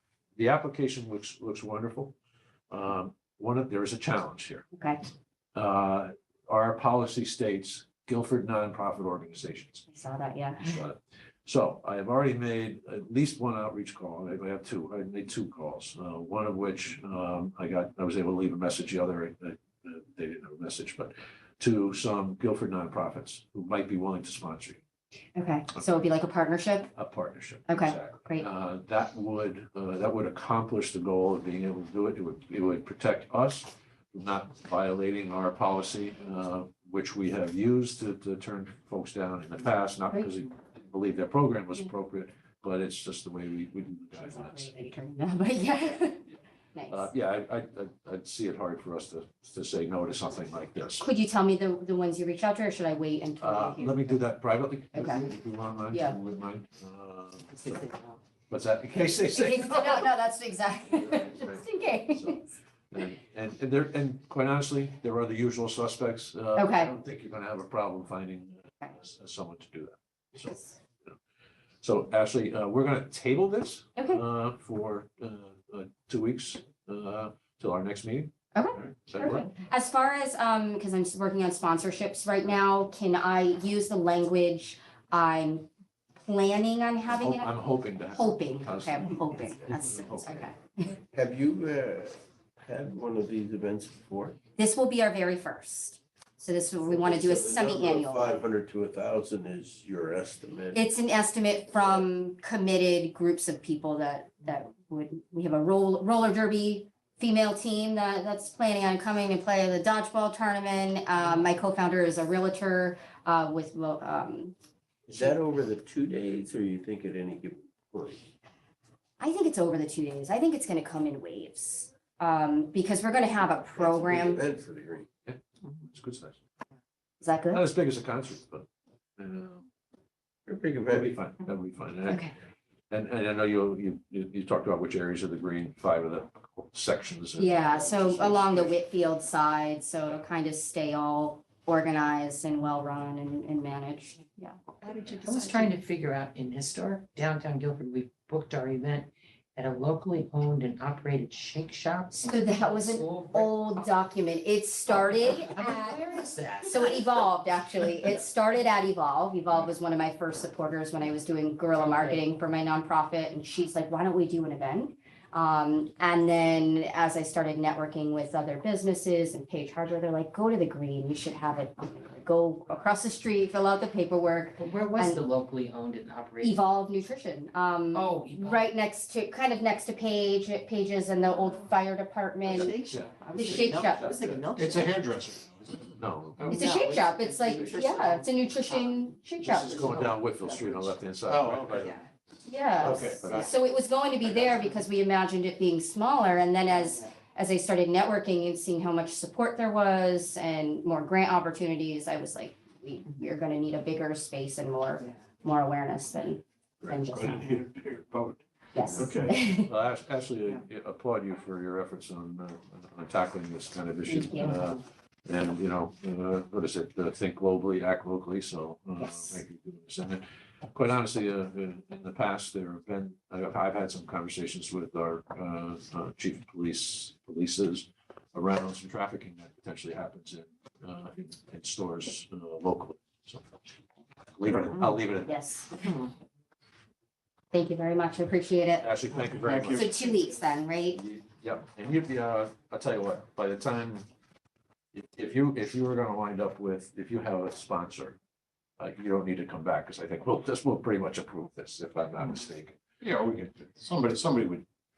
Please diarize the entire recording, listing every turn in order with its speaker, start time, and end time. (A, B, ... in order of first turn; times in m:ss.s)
0:00.4-0:02.1 A
0:02.7-0:04.7 A
0:05.5-0:09.8 A
0:09.9-0:10.8 B
0:10.6-0:24.8 A
0:25.4-0:26.9 B
0:26.9-0:44.7 A
0:27.7-0:28.4 B
0:44.2-0:47.1 B
0:46.9-0:51.0 A
0:51.0-0:54.2 B
0:53.4-0:57.9 A
0:54.9-0:55.3 B
0:55.9-0:56.2 B
0:58.5-1:00.1 A
0:59.2-1:02.5 B
1:01.0-1:11.2 A
1:06.5-1:06.9 B
1:11.8-1:19.5 A
1:18.5-1:25.7 B
1:26.2-1:27.5 B
1:27.1-1:30.5 A
1:28.1-1:30.9 B
1:31.1-1:34.4 C
1:34.6-1:38.4 B
1:36.9-1:40.8 C
1:40.7-1:54.5 B
1:41.8-1:42.0 C
1:55.1-1:58.2 C
1:59.2-2:04.4 B
2:03.7-2:05.1 C
2:05.3-2:06.4 A
2:07.2-2:07.6 B
2:07.5-2:08.7 A
2:09.2-2:09.7 A
2:10.5-2:11.1 C
2:10.8-2:12.3 A
2:12.9-2:18.8 A
2:17.4-2:24.6 B
2:24.9-2:33.5 D
2:32.1-2:55.2 B
2:34.9-2:37.2 D
2:41.7-2:42.2 D
2:54.6-2:56.6 D
2:56.4-3:02.7 B
2:57.9-2:58.7 D
3:02.5-3:04.5 A
3:02.5-3:05.0 D
3:03.3-3:04.1 B
3:04.6-3:05.9 E
3:05.9-3:06.7 A
3:06.4-3:06.7 E
3:06.5-3:08.2 D
3:06.5-3:09.8 B
3:09.4-3:12.0 A
3:09.7-3:10.4 D
3:11.2-3:12.0 E
3:12.5-3:27.4 B
3:12.8-3:13.5 A
3:12.8-3:13.4 E
3:26.9-3:28.4 E
3:27.2-3:27.6 C
3:28.7-3:29.7 B
3:28.9-3:29.3 C
3:29.0-3:29.3 E
3:29.6-3:53.6 A
3:34.1-3:34.6 B
3:39.0-3:39.4 B
3:54.4-3:55.4 A
3:55.2-3:55.8 B
3:57.5-3:58.9 B
3:58.8-4:00.1 A
3:59.3-3:59.9 E
3:59.6-4:01.0 B
4:00.9-4:04.0 A
4:04.9-4:08.2 A
4:08.8-4:12.8 A
4:13.0-4:14.6 E